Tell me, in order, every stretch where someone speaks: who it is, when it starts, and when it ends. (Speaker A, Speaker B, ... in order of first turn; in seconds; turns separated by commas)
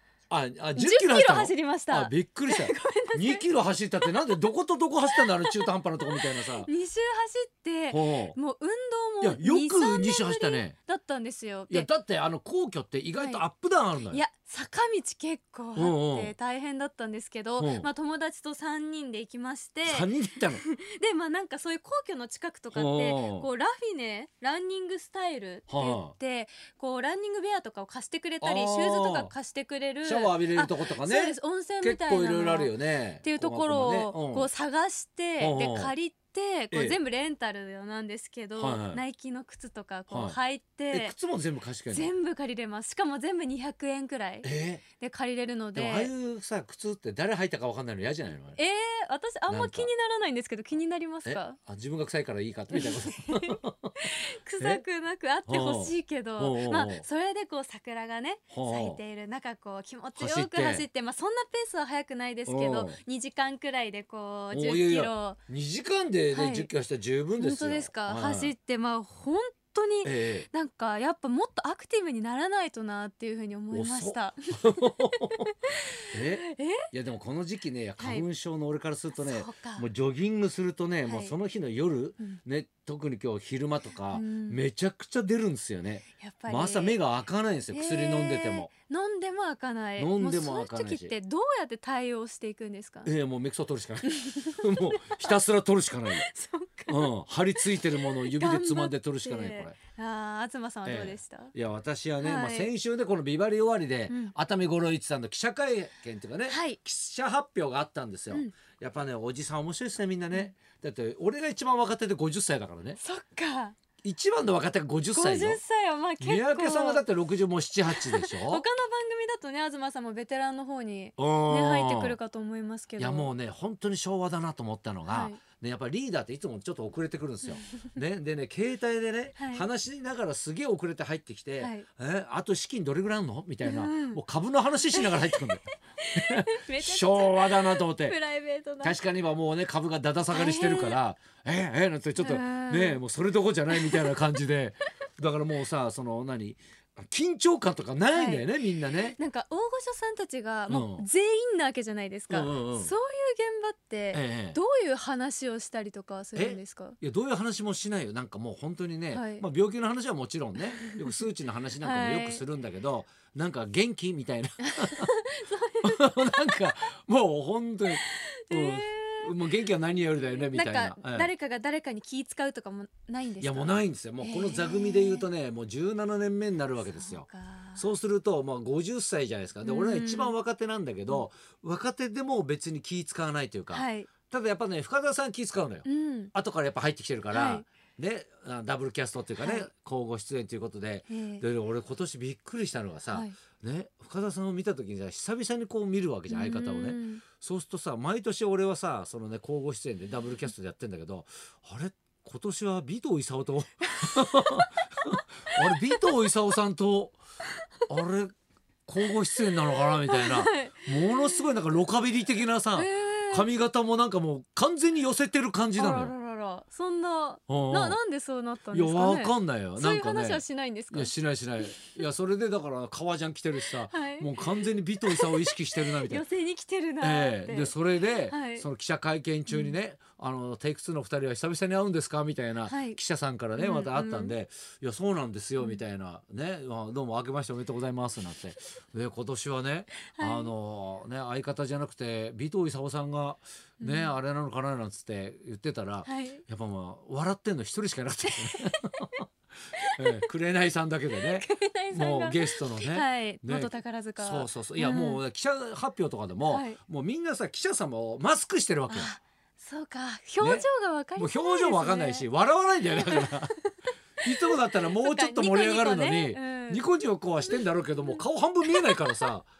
Speaker A: 0.3-6.7, Speaker B: 0.8-3.5, Speaker B: 4.0-4.4, Speaker B: 5.1-11.9, Speaker A: 7.9-8.4, Speaker A: 9.2-10.8, Speaker A: 11.7-14.2, Speaker B: 13.2-13.4, Speaker B: 14.1-41.1, Speaker A: 15.8-16.3, Speaker A: 17.6-17.9, Speaker A: 19.9-20.6, Speaker A: 22.7-23.5, Speaker A: 25.7-26.1, Speaker A: 28.4-29.3, Speaker A: 30.0-34.5, Speaker A: 35.4-35.9, Speaker A: 36.7-37.0, Speaker A: 38.6-39.0, Speaker A: 40.1-40.4, Speaker A: 40.9-42.1, Speaker B: 41.9-46.1, Speaker A: 44.4-44.8, Speaker A: 45.8-48.6, Speaker B: 48.6-51.6, Speaker A: 49.5-49.9, Speaker A: 51.3-53.9, Speaker B: 52.7-65.4, Speaker A: 55.5-57.0, Speaker A: 58.5-59.0, Speaker A: 60.2-60.9, Speaker A: 62.5-63.0, Speaker A: 64.5-68.5, Speaker B: 66.3-66.7, Speaker B: 67.4-76.9, Speaker A: 70.0-70.5, Speaker A: 73.7-75.5, Speaker A: 76.1-88.7, Speaker B: 78.0-78.2, Speaker B: 79.2-79.9, Speaker B: 81.0-81.3, Speaker B: 84.1-84.6, Speaker B: 86.2-87.0, Speaker B: 87.7-93.1, Speaker A: 90.0-91.1, Speaker A: 93.0-96.3, Speaker B: 94.0-95.4, Speaker B: 96.1-101.5, Speaker A: 96.9-99.8, Speaker A: 100.9-113.0, Speaker B: 102.2-102.7, Speaker B: 104.1-104.3, Speaker B: 106.5-106.8, Speaker B: 113.0-113.8, Speaker A: 114.0-115.6, Speaker B: 115.1-117.0, Speaker A: 116.2-118.6, Speaker B: 118.0-123.3, Speaker A: 121.2-122.2, Speaker A: 123.0-135.7, Speaker B: 125.1-125.4, Speaker B: 129.4-129.7, Speaker B: 131.6-131.9, Speaker B: 133.6-134.2, Speaker B: 134.9-139.0, Speaker A: 136.2-138.2, Speaker A: 138.8-149.2, Speaker B: 140.3-141.0, Speaker B: 142.2-143.0, Speaker B: 143.7-144.2, Speaker B: 148.1-148.5, Speaker B: 149.2-157.0, Speaker A: 150.7-151.1, Speaker A: 152.3-152.9, Speaker A: 154.1-154.6, Speaker A: 156.4-165.1, Speaker B: 159.1-159.4, Speaker B: 160.8-161.1, Speaker B: 161.8-162.4, Speaker B: 164.7-166.8, Speaker A: 165.8-171.3, Speaker B: 167.9-169.4, Speaker B: 170.4-175.3, Speaker A: 173.4-207.2, Speaker B: 176.9-177.8, Speaker B: 179.6-180.3, Speaker B: 183.7-184.1, Speaker B: 185.8-186.3, Speaker B: 187.3-187.7, Speaker B: 189.4-189.7, Speaker B: 191.1-191.4, Speaker B: 196.3-197.2, Speaker B: 204.0-204.7, Speaker B: 205.6-206.0, Speaker A: 207.9-208.3, Speaker A: 208.9-216.1, Speaker B: 209.7-211.5, Speaker B: 212.8-213.5, Speaker B: 215.8-222.0, Speaker A: 217.5-218.0, Speaker A: 218.7-226.2, Speaker B: 223.9-228.7, Speaker A: 227.0-249.1, Speaker B: 229.5-229.8, Speaker B: 232.7-233.0, Speaker B: 233.6-234.4, Speaker B: 240.1-240.5, Speaker B: 243.8-244.2, Speaker B: 246.1-246.4, Speaker B: 248.4-249.2, Speaker B: 249.8-250.2, Speaker A: 250.0-259.1, Speaker B: 251.2-255.2, Speaker B: 256.4-256.8, Speaker B: 258.9-262.3, Speaker A: 260.4-263.5, Speaker B: 262.9-266.8, Speaker A: 264.2-269.5, Speaker B: 267.5-268.2, Speaker B: 268.7-269.3